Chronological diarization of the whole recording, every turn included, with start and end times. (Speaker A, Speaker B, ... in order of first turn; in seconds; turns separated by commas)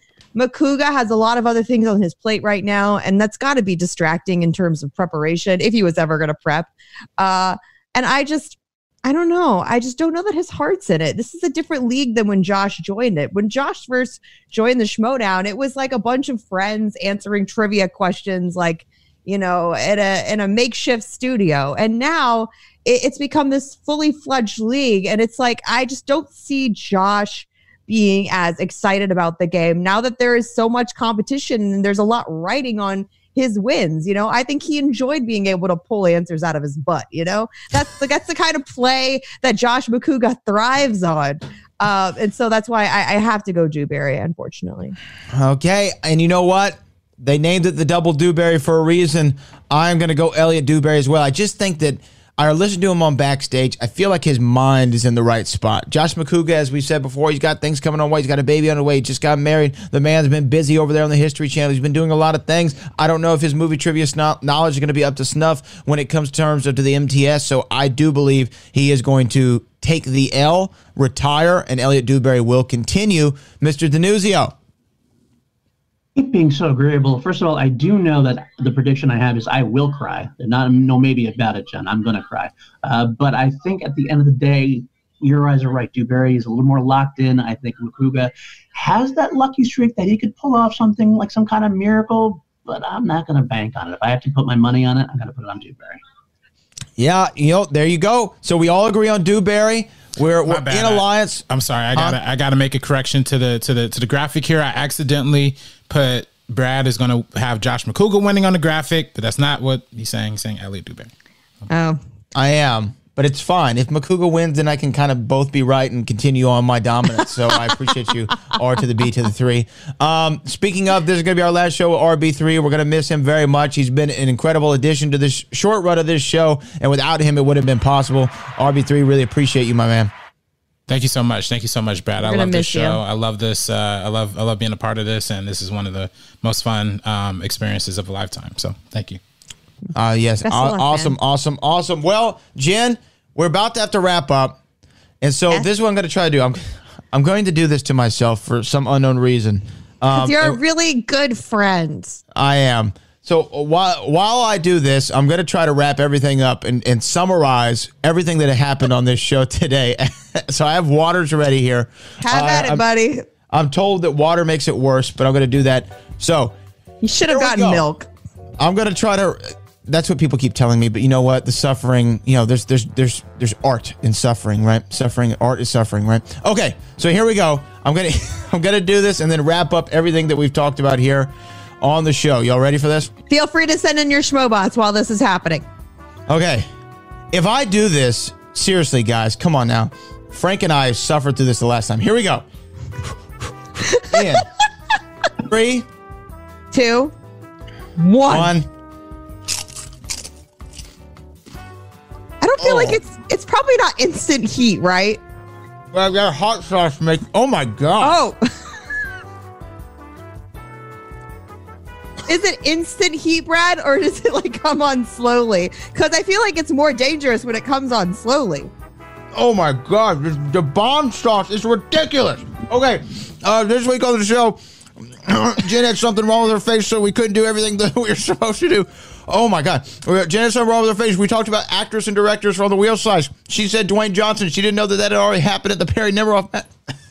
Speaker A: 0.3-45.0, Speaker B: 45.3-74.5, Speaker C: 76.2-96.0, Speaker B: 97.0-101.4, Speaker D: 100.5-111.1, Speaker A: 111.7-112.0, Speaker B: 112.3-130.1, Speaker D: 130.9-139.2, Speaker A: 132.2-133.0, Speaker B: 139.9-144.6, Speaker A: 140.4-141.2, Speaker B: 145.2-150.6, Speaker A: 150.1-152.2, Speaker B: 152.3-162.8, Speaker A: 162.2-163.2, Speaker B: 163.5-166.5, Speaker A: 167.0-168.1, Speaker B: 167.3-167.8, Speaker B: 168.6-183.1, Speaker A: 183.3-185.6, Speaker B: 186.3-186.7, Speaker B: 187.3-192.4, Speaker A: 193.8-194.4, Speaker B: 194.1-194.4, Speaker B: 195.4-195.9, Speaker A: 196.7-197.1, Speaker A: 198.0-198.5, Speaker B: 198.3-198.7, Speaker A: 202.4-205.2, Speaker B: 202.6-203.0, Speaker B: 205.9-208.2, Speaker A: 208.0-208.4, Speaker A: 212.3-218.7, Speaker B: 219.3-236.7